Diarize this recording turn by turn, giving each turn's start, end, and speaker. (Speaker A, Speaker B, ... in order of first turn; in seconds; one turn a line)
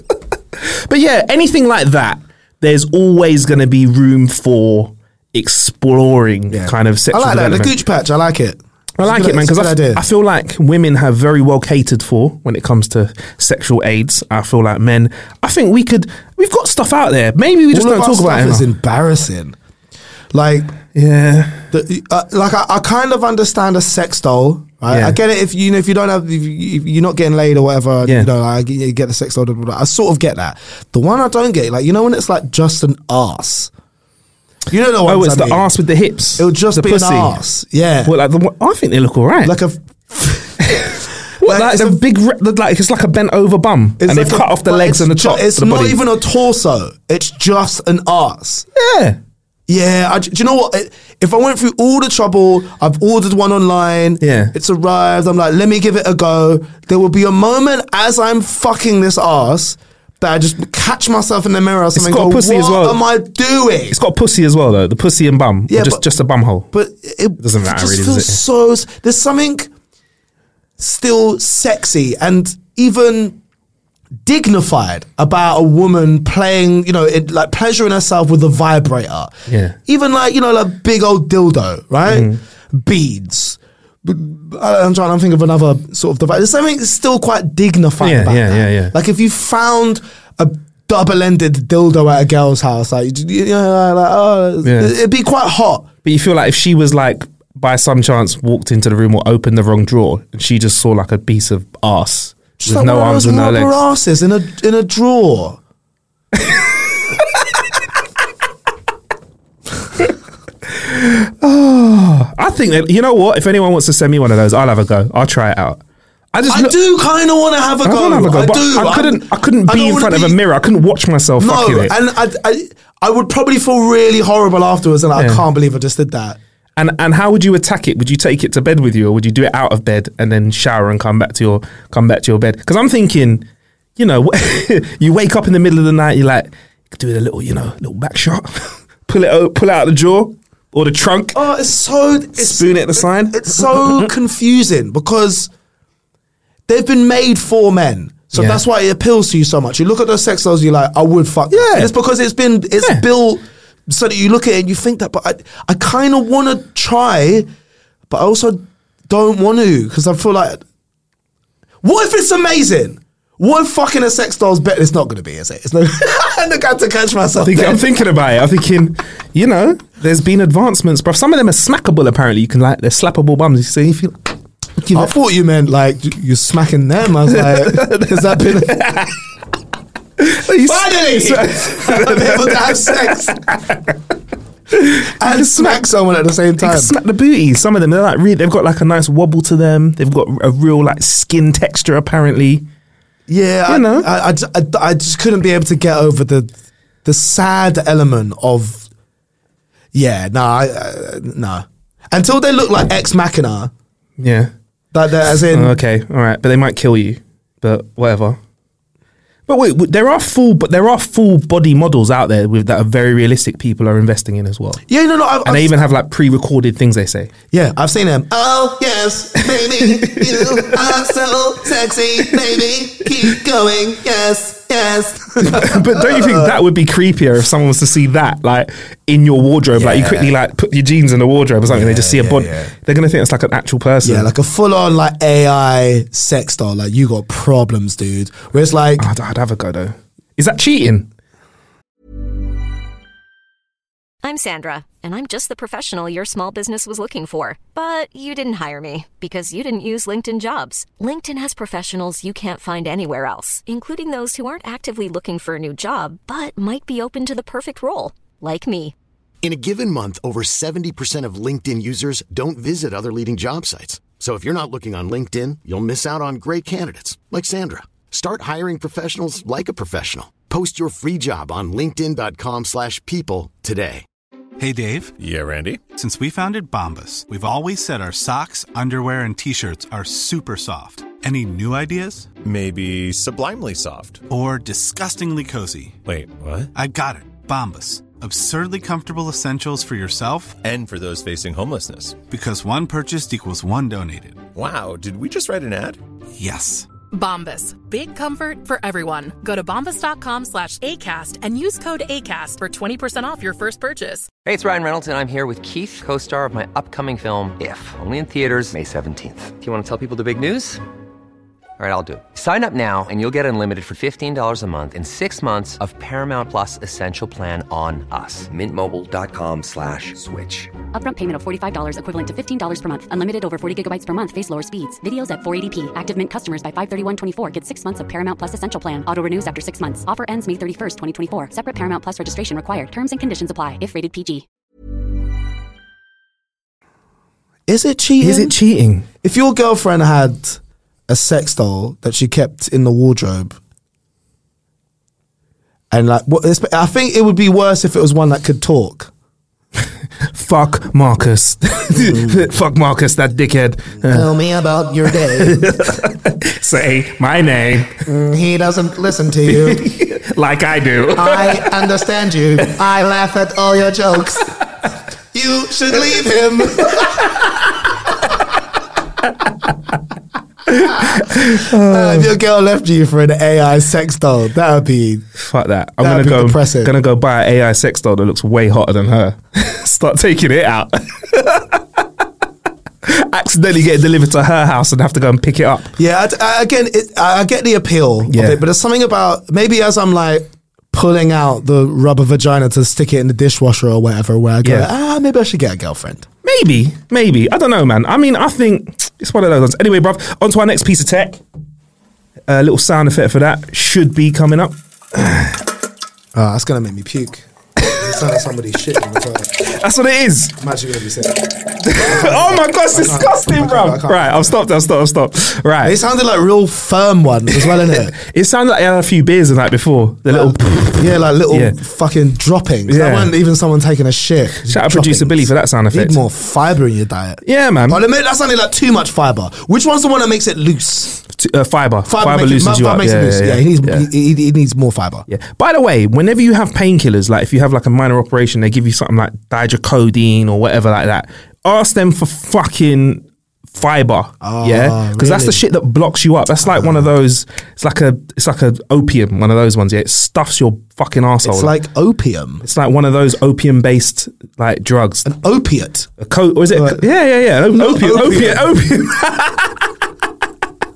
Speaker A: 0.9-7.7
Speaker B: 6.5-10.0
Speaker A: 9.0-18.6
Speaker B: 17.7-19.6
Speaker B: 20.3-20.8
Speaker A: 20.9-21.7
Speaker B: 21.7-33.7
Speaker A: 24.9-25.2
Speaker B: 34.7-35.6
Speaker A: 35.0-37.4
Speaker B: 36.4-38.1
Speaker A: 38.0-39.5
Speaker B: 39.4-40.6
Speaker A: 40.6-46.0
Speaker B: 41.4-42.0
Speaker B: 44.0-48.7
Speaker A: 48.7-49.2
Speaker B: 49.7-64.0
Speaker A: 54.2-54.5
Speaker A: 62.0-63.0
Speaker A: 63.9-66.7
Speaker B: 65.7-66.0
Speaker B: 66.7-69.7
Speaker A: 67.4-68.4
Speaker B: 70.8-73.4
Speaker B: 74.2-79.3
Speaker A: 79.5-79.8
Speaker B: 79.8-95.9
Speaker A: 82.1-82.4
Speaker A: 88.0-88.9
Speaker A: 94.6-94.9
Speaker A: 96.0-103.7
Speaker B: 102.6-105.6
Speaker A: 106.4-107.0
Speaker A: 110.7-115.8
Speaker A: 116.3-116.7
Speaker B: 116.5-120.4
Speaker A: 117.8-121.9
Speaker B: 121.4-126.4
Speaker A: 125.1-125.4
Speaker A: 126.8-133.4
Speaker A: 134.0-141.4
Speaker B: 141.3-145.5
Speaker A: 142.4-144.1
Speaker B: 146.7-157.5
Speaker A: 148.3-148.6
Speaker A: 151.5-151.9
Speaker B: 158.1-160.6
Speaker B: 161.8-167.8
Speaker A: 167.4-175.1
Speaker B: 174.9-178.8
Speaker A: 177.3-179.2
Speaker A: 180.2-183.9
Speaker B: 180.6-183.4
Speaker A: 184.7-185.9
Speaker B: 185.0-186.9
Speaker A: 186.6-192.6
Speaker B: 193.3-196.5
Speaker A: 193.7-194.1
Speaker B: 197.0-198.9
Speaker B: 199.9-203.7
Speaker A: 204.2-204.5
Speaker B: 204.9-205.8
Speaker A: 205.5-208.4
Speaker A: 209.5-214.8
Speaker B: 214.9-215.7
Speaker A: 215.4-217.3
Speaker B: 217.5-226.6
Speaker A: 220.0-220.9
Speaker A: 225.4-234.3
Speaker B: 229.7-230.3
Speaker B: 231.7-232.7
Speaker B: 234.0-239.1
Speaker A: 239.0-241.1
Speaker C: 244.2-258.9
Speaker D: 259.4-274.1
Speaker E: 274.6-275.2
Speaker F: 275.2-275.9
Speaker E: 275.9-282.3
Speaker F: 282.4-284.2
Speaker E: 284.3-286.0
Speaker F: 286.1-286.7
Speaker E: 286.7-290.6
Speaker F: 290.6-292.2
Speaker E: 292.3-294.5
Speaker F: 294.5-296.0
Speaker E: 296.4-296.9
Speaker G: 297.1-304.3
Speaker H: 304.4-310.8
Speaker H: 311.8-320.7
Speaker I: 320.9-334.4
Speaker B: 337.7-338.5
Speaker A: 338.2-339.1
Speaker B: 339.2-343.6
Speaker B: 345.9-349.1
Speaker A: 350.3-354.3
Speaker B: 351.9-352.4
Speaker B: 354.0-356.0
Speaker A: 355.1-358.0
Speaker B: 358.0-359.8
Speaker A: 359.4-361.9
Speaker B: 361.1-364.5
Speaker B: 365.3-367.4
Speaker A: 370.7-372.3
Speaker B: 370.8-375.2
Speaker A: 375.4-381.8
Speaker B: 376.0-376.9
Speaker A: 383.0-385.9
Speaker B: 386.0-396.3
Speaker A: 388.3-388.6
Speaker A: 394.6-394.9
Speaker A: 396.4-401.4
Speaker A: 402.5-405.6
Speaker B: 406.3-409.7
Speaker A: 409.6-410.6
Speaker B: 410.6-414.6
Speaker A: 411.8-415.9
Speaker B: 415.8-418.1
Speaker A: 417.6-421.8
Speaker B: 420.3-431.2
Speaker A: 422.9-423.3
Speaker A: 424.6-426.2
Speaker A: 427.4-428.0
Speaker A: 431.3-434.1
Speaker B: 432.1-435.3
Speaker A: 435.3-451.8
Speaker B: 444.4-445.6
Speaker B: 446.6-447.1
Speaker B: 451.4-452.6
Speaker A: 452.6-455.3
Speaker B: 455.2-456.1
Speaker A: 456.2-459.8
Speaker B: 456.7-457.0
Speaker B: 457.7-458.7